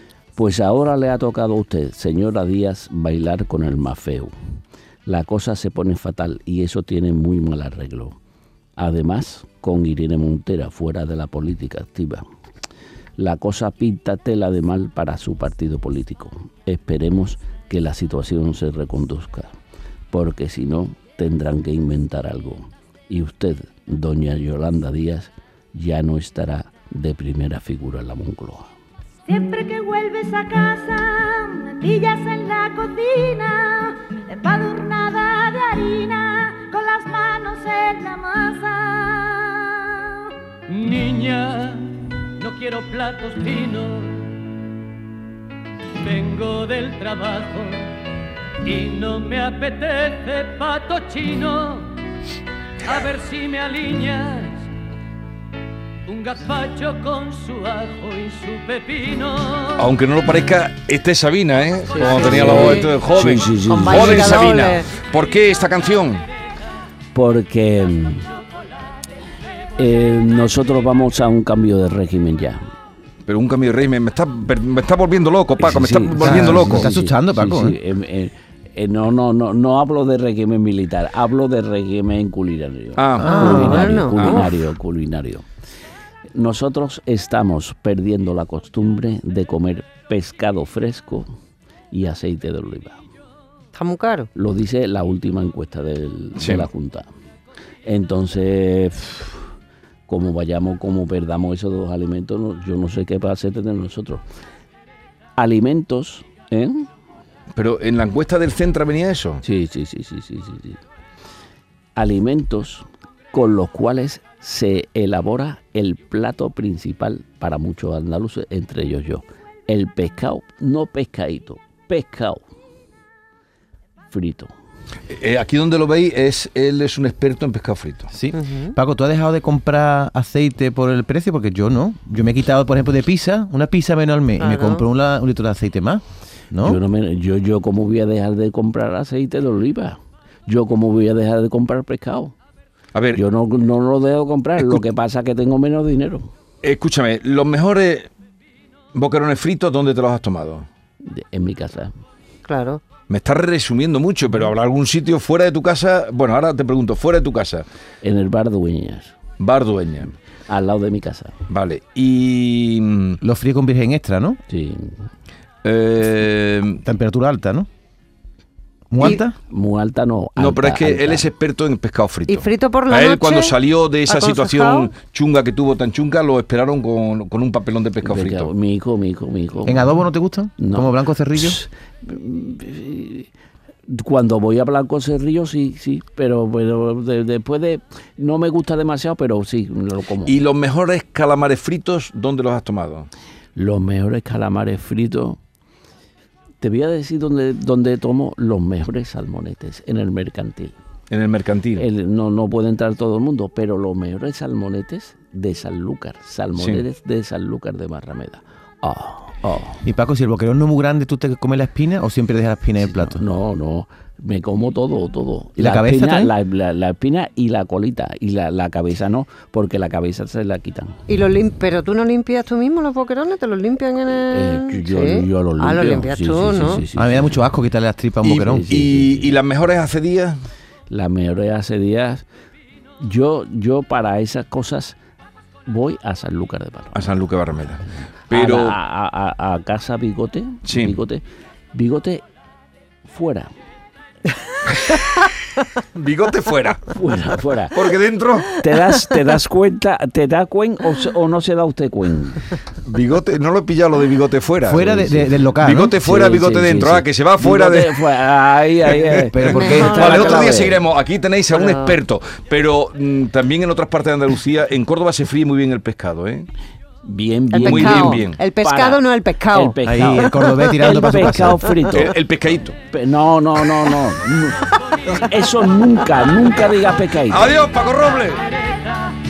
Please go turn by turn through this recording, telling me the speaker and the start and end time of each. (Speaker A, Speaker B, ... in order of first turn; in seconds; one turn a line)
Speaker A: 0.3-4.3
Speaker A: 5.0-8.2
Speaker A: 8.8-12.2
Speaker A: 13.2-19.5
Speaker A: 20.1-28.7
Speaker B: 29.3-40.1
Speaker C: 40.8-41.8
Speaker C: 42.4-44.0
Speaker C: 46.1-47.8
Speaker C: 48.6-51.8
Speaker C: 52.9-54.6
Speaker C: 56.1-59.6
Speaker D: 59.8-66.2
Speaker E: 61.9-62.9
Speaker A: 62.2-64.5
Speaker E: 63.6-64.9
Speaker A: 67.1-68.3
Speaker A: 69.8-72.6
Speaker D: 73.2-76.9
Speaker A: 75.6-85.4
Speaker F: 76.2-77.8
Speaker D: 83.0-84.5
Speaker E: 83.2-84.5
Speaker F: 83.2-83.8
Speaker A: 86.3-91.3
Speaker A: 91.9-93.0
Speaker E: 93.7-94.3
Speaker A: 94.3-97.0
Speaker D: 96.4-96.7
Speaker A: 97.8-99.3
Speaker A: 100.1-104.2
Speaker A: 105.4-106.9
Speaker D: 107.5-109.4
Speaker A: 109.4-110.8
Speaker A: 112.0-122.4
Speaker A: 124.1-124.5
Speaker D: 125.1-128.1
Speaker F: 128.1-136.8
Speaker E: 128.3-128.7
Speaker E: 134.4-134.8
Speaker A: 136.6-142.3
Speaker D: 142.9-143.2
Speaker A: 143.1-146.3
Speaker D: 146.6-148.1
Speaker D: 148.9-150.7
Speaker A: 151.0-151.9
Speaker E: 152.5-152.8
Speaker D: 153.1-157.7
Speaker A: 158.0-159.1
Speaker D: 159.4-160.1
Speaker A: 160.5-161.3
Speaker D: 161.5-163.2
Speaker F: 163.2-164.4
Speaker A: 164.5-165.0
Speaker D: 165.6-166.8
Speaker F: 166.8-167.7
Speaker F: 168.9-169.3
Speaker A: 169.0-171.2
Speaker D: 170.4-178.5
Speaker E: 172.3-174.9
Speaker A: 178.0-180.0
Speaker F: 179.7-181.6
Speaker A: 180.6-183.3
Speaker A: 183.9-190.3
Speaker D: 190.2-193.1
Speaker A: 193.6-195.4
Speaker A: 196.6-200.7
Speaker D: 201.1-201.8
Speaker A: 201.7-209.8
Speaker D: 206.6-206.8
Speaker F: 209.8-213.2
Speaker A: 212.8-221.0
Speaker F: 215.6-216.3
Speaker E: 221.1-226.8
Speaker A: 224.3-227.4
Speaker F: 226.9-228.7
Speaker D: 228.2-230.4
Speaker A: 228.4-229.3
Speaker A: 230.9-232.2
Speaker A: 233.0-234.9
Speaker A: 235.7-237.1
Speaker D: 236.9-238.8
Speaker A: 238.3-242.2
Speaker D: 240.6-240.9
Speaker A: 243.0-243.5
Speaker D: 245.9-246.8
Speaker A: 246.9-247.8
Speaker D: 247.7-248.6
Speaker A: 248.5-252.5
Speaker D: 252.8-255.0
Speaker F: 254.6-255.9
Speaker D: 255.6-258.0
Speaker A: 256.0-260.8
Speaker F: 259.3-260.0
Speaker E: 259.4-260.7
Speaker D: 259.6-266.5
Speaker E: 261.5-262.0
Speaker A: 267.0-272.1
Speaker E: 267.5-270.7
Speaker D: 267.6-268.4
Speaker F: 269.8-271.8
Speaker D: 271.9-272.8
Speaker A: 272.9-277.4
Speaker D: 277.3-278.4
Speaker B: 278.7-279.1